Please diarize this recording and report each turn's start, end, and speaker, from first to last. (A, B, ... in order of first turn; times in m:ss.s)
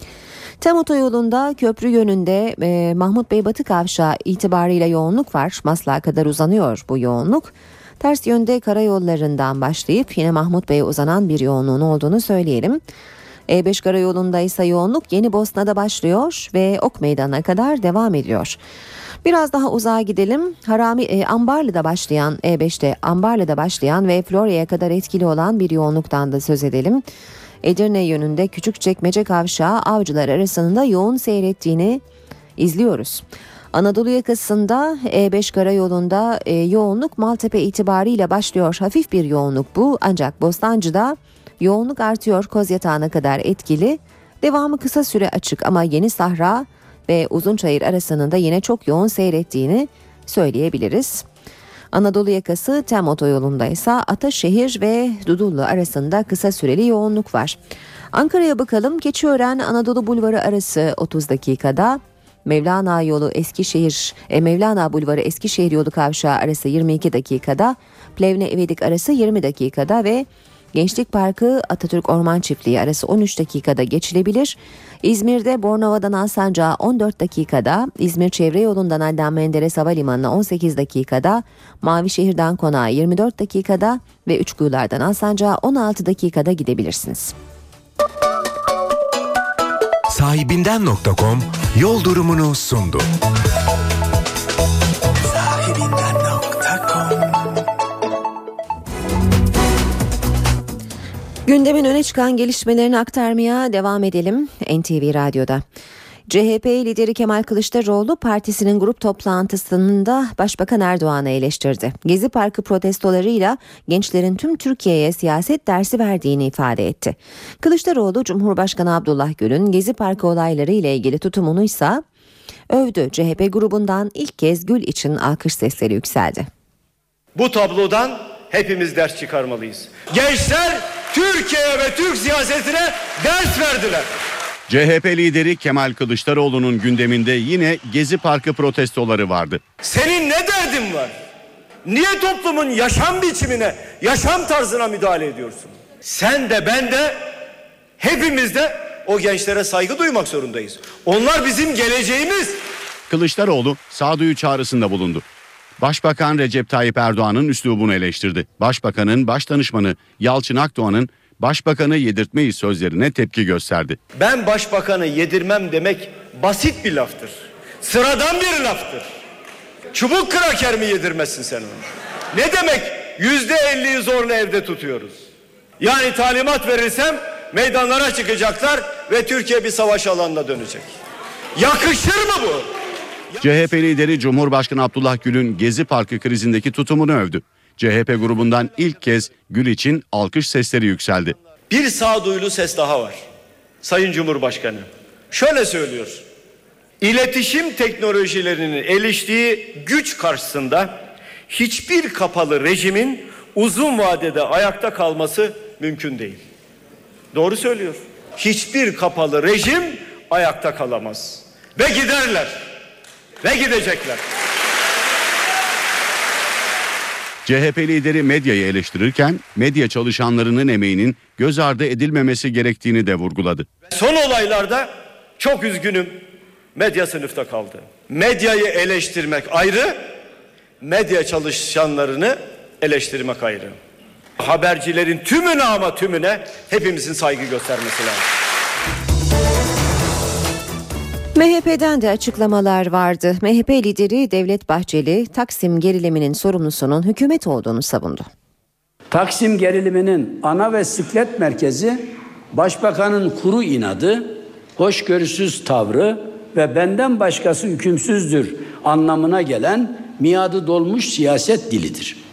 0:00.6-0:12.8 A
0:13.5-0:18.6 A
0:19.2-0:27.0 A
0:27.6-0:32.0 A
0:32.6-0:51.2 A
0:51.9-0:57.6 A
0:58.1-1:27.3 A
1:30.1-1:33.1 B
1:41.4-1:45.6 A
1:46.3-2:02.0 A
2:02.7-2:06.5 A
2:07.3-2:14.1 C
2:14.7-2:19.7 D
2:19.8-2:21.2 C
2:21.8-2:27.2 C
2:28.0-2:32.6 C
2:33.1-2:35.2 D
2:35.8-2:44.0 D
2:44.1-2:49.1 C
2:49.9-2:55.2 C
2:55.8-3:01.0 C
3:01.6-3:02.7 C
3:03.4-3:11.4 D
3:11.7-3:13.2 C
3:13.8-3:16.2 C
3:17.0-3:26.4 C
3:27.3-3:32.6 C
3:33.4-3:34.2 C
3:37.4-3:43.7 D
3:43.9-3:46.2 C
3:46.7-3:50.0 C
3:50.8-3:53.8 C
3:54.4-3:58.2 C
4:01.3-4:08.3 A
4:09.1-4:22.2 E